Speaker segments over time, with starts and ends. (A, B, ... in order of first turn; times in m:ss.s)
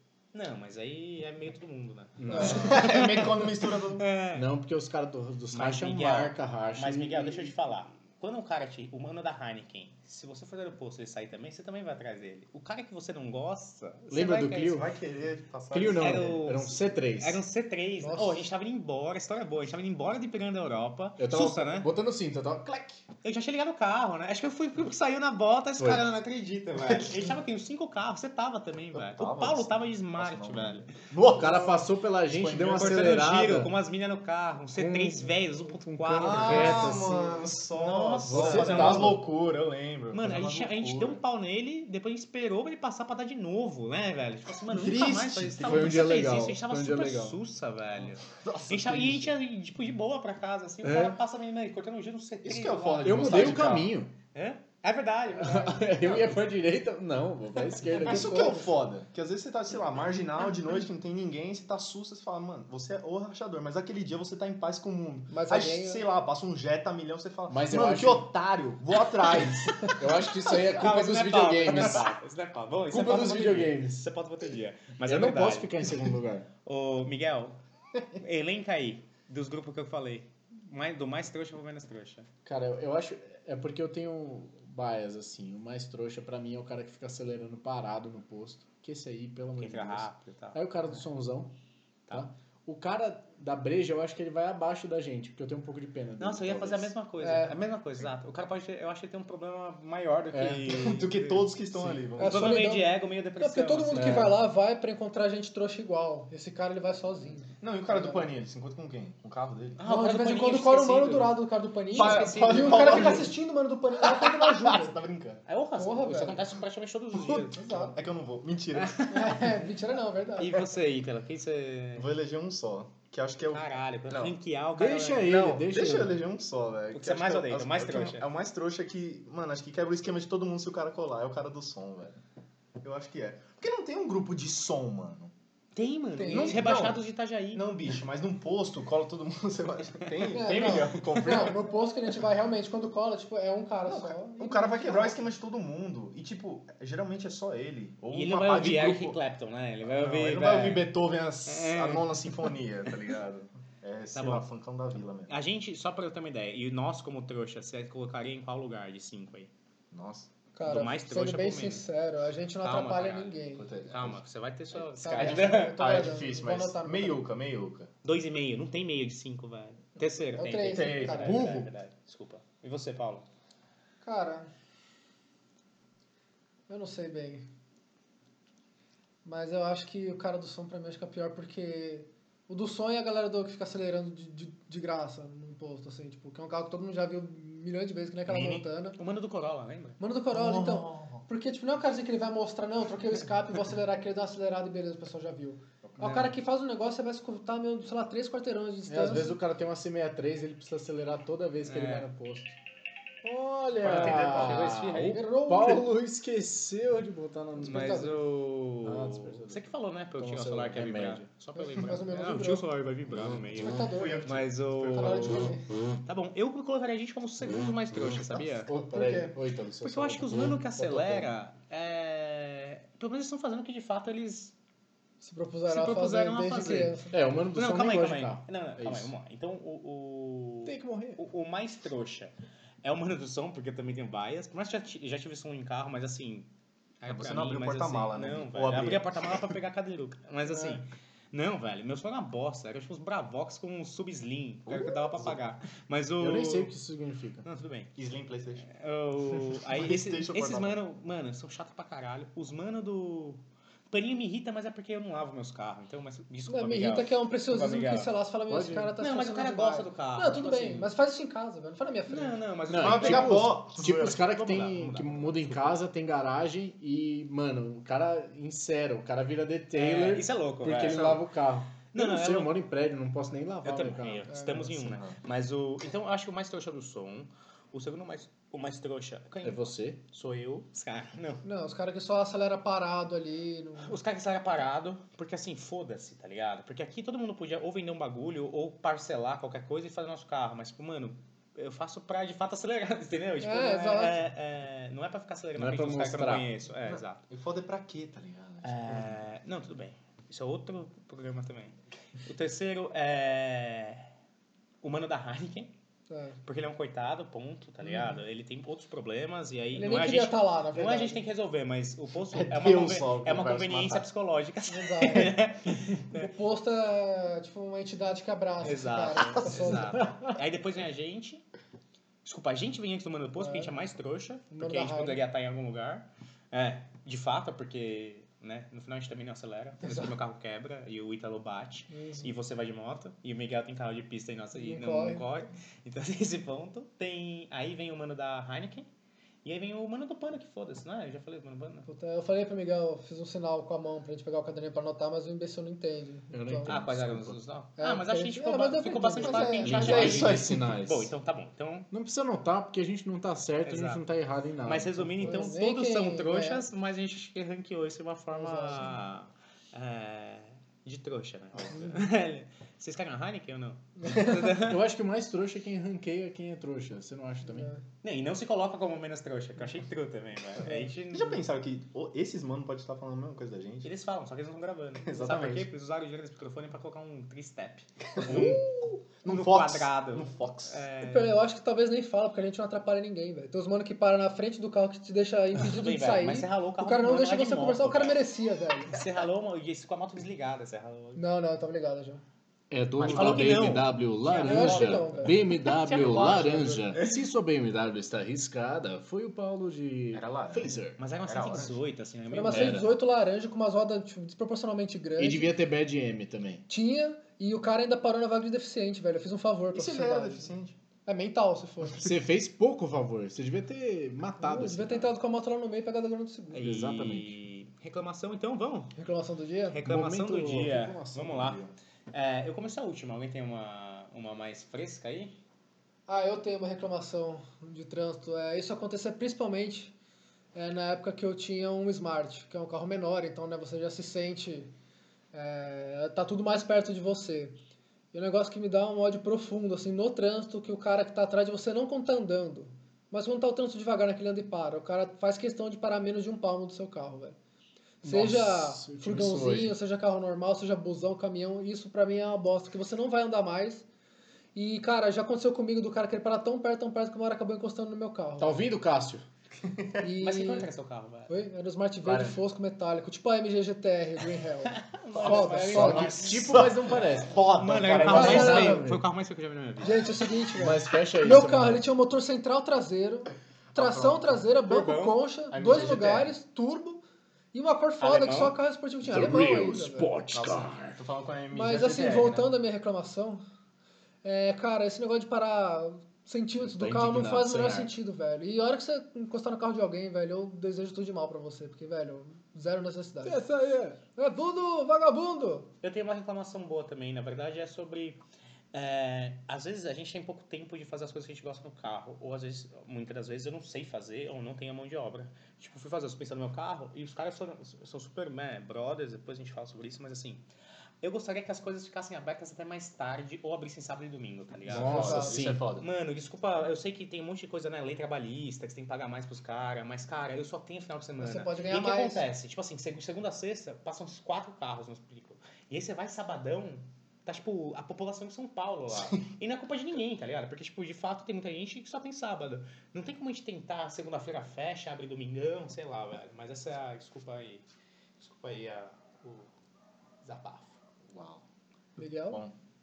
0:00.3-0:04.5 A
0:02.2-0:02.9 B
0:02.3-0:02.6 C
0:02.3-0:04.0 D
0:04.3-0:07.5 B
0:05.5-0:14.8 A
0:14.1-0:14.9 B
0:14.7-0:16.4 D
0:15.7-0:17.4 B
0:15.9-0:21.9 A
0:18.0-0:18.4 C
0:21.2-0:23.0 B
0:23.2-0:30.9 A
0:25.8-0:26.0 B
0:26.8-0:27.2 D
0:28.9-0:33.2 D
0:31.2-0:33.7 B
0:32.7-0:37.0 A
0:34.8-0:37.4 B
0:36.2-0:41.2 D
0:37.7-0:39.2 A
0:38.2-0:39.2 B
0:40.1-0:53.8 A
0:44.7-0:46.0 D
0:45.4-0:47.4 B
0:48.0-0:49.3 D
0:50.8-0:51.2 B
0:52.4-0:53.9 D
0:53.0-0:54.1 B
0:54.3-0:56.4 A
0:55.3-0:58.5 B
0:58.0-1:10.8 D
0:58.0-0:58.7 C
1:05.3-1:06.0 C
1:07.5-1:08.3 B
1:09.9-1:12.1 B
1:10.4-1:15.8 A
1:12.9-1:14.1 B
1:15.0-1:16.5 B
1:16.6-1:17.6 A
1:18.2-1:22.3 A
1:22.4-1:31.5 B
1:29.6-1:30.6 A
1:32.1-1:36.9 B
1:36.2-1:44.2 A
1:37.2-1:37.6 C
1:40.3-1:40.8 B
1:40.7-1:42.6 D
1:42.2-1:48.2 C
1:43.9-1:44.3 B
1:47.6-1:49.8 D
1:49.8-1:51.4 A
1:49.8-1:54.9 C
1:51.9-1:53.3 A
1:51.9-1:53.3 D
1:54.0-1:55.4 D
1:55.5-1:58.0 A
1:55.8-1:56.4 C
1:57.5-1:57.9 C
1:57.9-1:59.1 D
1:58.7-1:59.4 A
1:59.1-2:00.6 C
2:00.4-2:02.1 A
2:02.0-2:04.3 D
2:03.5-2:05.3 A
2:04.8-2:06.2 B
2:05.2-2:12.2 D
2:06.9-2:08.3 A
2:12.8-2:15.3 D
2:15.7-2:17.6 A
2:16.2-2:16.6 C
2:16.2-2:21.6 D
2:20.1-2:21.5 A
2:20.3-2:25.2 C
2:23.9-2:29.2 D
2:28.1-2:30.9 A
2:29.8-2:35.3 D
2:31.4-2:33.2 A
2:34.1-2:34.5 A
2:35.3-2:39.5 A
2:39.9-2:40.3 D
2:40.5-2:43.8 C
2:40.6-2:41.8 A
2:42.6-2:45.8 A
2:43.6-2:44.2 D
2:45.0-2:47.2 C
2:45.0-2:47.9 D
2:48.0-2:53.2 A
2:50.4-2:51.5 C
2:50.6-2:51.7 D
2:54.0-2:54.5 C
2:56.7-2:57.5 C
2:59.2-3:09.0 C
3:08.3-3:10.0 A
3:10.0-3:19.4 C
3:10.3-3:11.2 D
3:15.8-3:16.3 D
3:18.9-3:22.6 B
3:21.6-3:22.1 A
3:23.2-3:28.1 B
3:23.8-3:24.7 D
3:23.8-3:25.2 A
3:25.0-3:25.9 C
3:27.6-3:28.2 C
3:27.6-3:35.5 A
3:28.8-3:31.3 B
3:31.5-3:32.6 C
3:33.5-3:35.7 C
3:33.6-3:35.5 D
3:36.0-3:38.7 A
3:38.7-3:41.3 B
3:38.9-3:39.3 C
3:39.8-3:44.5 A
3:45.2-3:47.1 C
3:45.7-3:47.0 A
3:47.1-3:49.1 B
3:47.5-3:56.5 A
3:50.6-3:51.2 B
3:57.0-4:06.7 A
3:57.1-3:59.1 D
4:00.5-4:00.8 C
4:04.7-4:05.4 D
4:06.2-4:07.5 B
4:07.4-4:07.9 A
4:07.9-4:08.7 D
4:08.6-4:18.1 A
4:09.6-4:10.8 D
4:16.5-4:22.4 C
4:18.5-4:19.0 B
4:19.0-4:20.9 A
4:22.1-4:23.6 A
4:22.7-4:34.9 B
4:22.8-4:24.8 D
4:24.1-4:25.8 A
4:29.7-4:31.2 A
4:31.9-4:32.5 A
4:33.6-4:41.4 A
4:34.3-4:34.7 C
4:34.8-4:35.2 D
4:39.4-4:40.0 B
4:41.4-4:44.0 C
4:43.8-4:57.2 A
4:53.4-4:54.2 C
4:55.6-4:56.5 B
4:56.8-4:59.2 D
4:58.6-5:04.1 A
5:04.8-5:05.7 A
5:06.1-5:06.4 C
5:06.4-5:16.3 A
5:09.7-5:11.2 C
5:12.3-5:14.0 D
5:14.6-5:15.4 C
5:16.1-5:20.0 C
5:18.6-5:21.4 A
5:19.2-5:19.7 D
5:22.2-5:38.9 A
5:23.4-5:23.7 C
5:24.5-5:25.2 C
5:29.8-5:30.1 C
5:31.9-5:32.3 C
5:34.5-5:35.3 C
5:39.4-5:41.9 A
5:41.9-5:46.7 C
5:46.3-5:47.4 B
5:46.7-5:51.9 A
5:47.8-5:49.8 C
5:49.2-5:50.6 D
5:49.6-5:51.1 B
5:51.9-5:55.5 B
5:53.6-5:54.0 A
5:54.6-6:04.8 A
5:55.2-5:56.6 C
5:58.3-5:58.9 C
6:04.0-6:04.3 C
6:04.1-6:07.7 B
6:07.4-6:07.8 C
6:08.0-6:11.4 A
6:11.1-6:13.9 D
6:13.8-6:18.7 A
6:15.0-6:15.7 D
6:18.1-6:20.8 D
6:19.2-6:21.4 A
6:21.0-6:29.0 C
6:25.6-6:28.2 A
6:28.9-6:31.2 A
6:31.1-6:32.2 C
6:32.7-6:41.0 B
6:33.0-6:36.3 A
6:33.0-6:33.3 D
6:34.4-6:36.8 C
6:35.7-6:37.2 D
6:40.1-6:41.8 D
6:41.0-6:42.8 A
6:42.3-6:45.5 C
6:42.5-6:42.9 B
6:45.2-6:46.6 B
6:46.7-6:50.5 C
6:49.7-6:50.8 D
6:51.0-6:52.0 C
6:52.0-6:55.1 B
6:54.4-6:56.7 C
6:56.5-6:58.9 A
6:56.6-6:57.3 B
6:59.0-6:59.8 C
6:59.7-7:05.4 A
6:59.8-7:01.7 B
7:06.1-7:09.9 C
7:10.5-7:14.7 C
7:15.3-7:17.6 C
7:18.1-7:27.4 C
7:28.0-7:33.8 C
7:28.0-7:29.7 B
7:34.5-7:38.6 C
7:38.4-7:39.2 B
7:39.6-7:40.1 D
7:40.0-7:40.7 C
7:40.2-7:41.3 A
7:41.3-7:46.3 C
7:42.0-7:42.4 D
7:44.6-7:50.0 A
7:45.2-7:48.7 D
7:45.5-7:47.4 B
7:48.0-7:49.0 B
7:48.1-7:48.8 C
7:49.8-7:57.0 C
7:50.6-7:51.9 B
7:53.7-7:54.4 D
7:54.6-7:55.2 A
7:55.5-7:56.3 D
7:57.5-8:00.1 C
7:58.0-7:58.6 A
7:59.0-8:01.0 B
8:00.3-8:02.5 D
8:01.5-8:03.4 C
8:04.2-8:13.4 C
8:06.6-8:07.9 B
8:13.2-8:14.0 B
8:14.2-8:15.7 C
8:15.8-8:18.2 A
8:18.7-8:30.4 A
8:31.0-8:35.2 A
8:34.6-8:35.6 B
8:34.7-8:35.9 D
8:34.9-8:35.4 C
8:35.8-8:57.6 A
8:41.2-8:42.3 C
8:48.9-8:49.2 D
8:58.2-8:59.5 A
9:00.2-9:00.8 A
9:01.1-9:01.4 D
9:02.0-9:02.4 C